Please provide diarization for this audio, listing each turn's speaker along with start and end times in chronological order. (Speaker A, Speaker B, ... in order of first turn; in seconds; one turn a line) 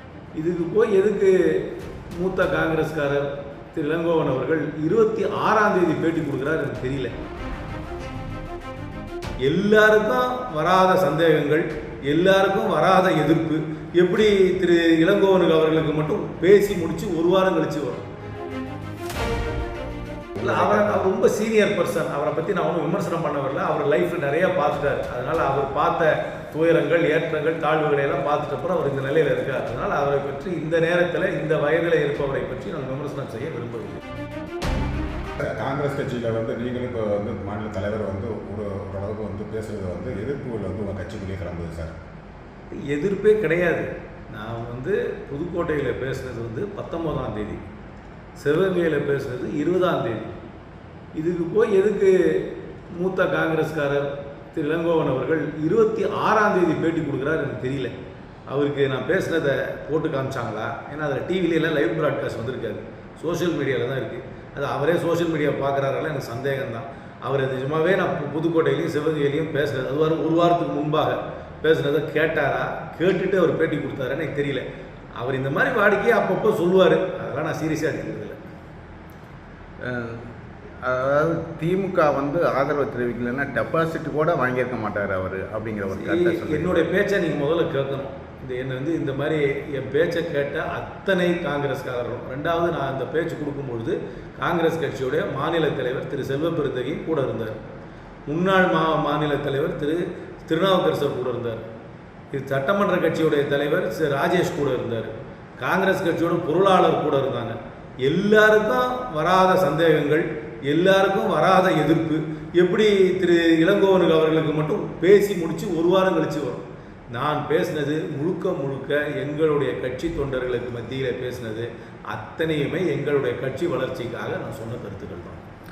Speaker A: 0.3-7.2
Speaker A: 9.4-18.1
Speaker A: 20.4-34.0
Speaker B: 20.5-20.8
Speaker C: 35.4-42.0
Speaker A: 42.7-47.6
Speaker A: 48.4-50.3
Speaker A: 51.1-58.0
Speaker A: 58.5-74.7
Speaker A: 75.2-78.4
Speaker B: 79.8-86.9
Speaker A: 86.0-97.5
Speaker A: 98.3-101.6
Speaker A: 102.3-125.4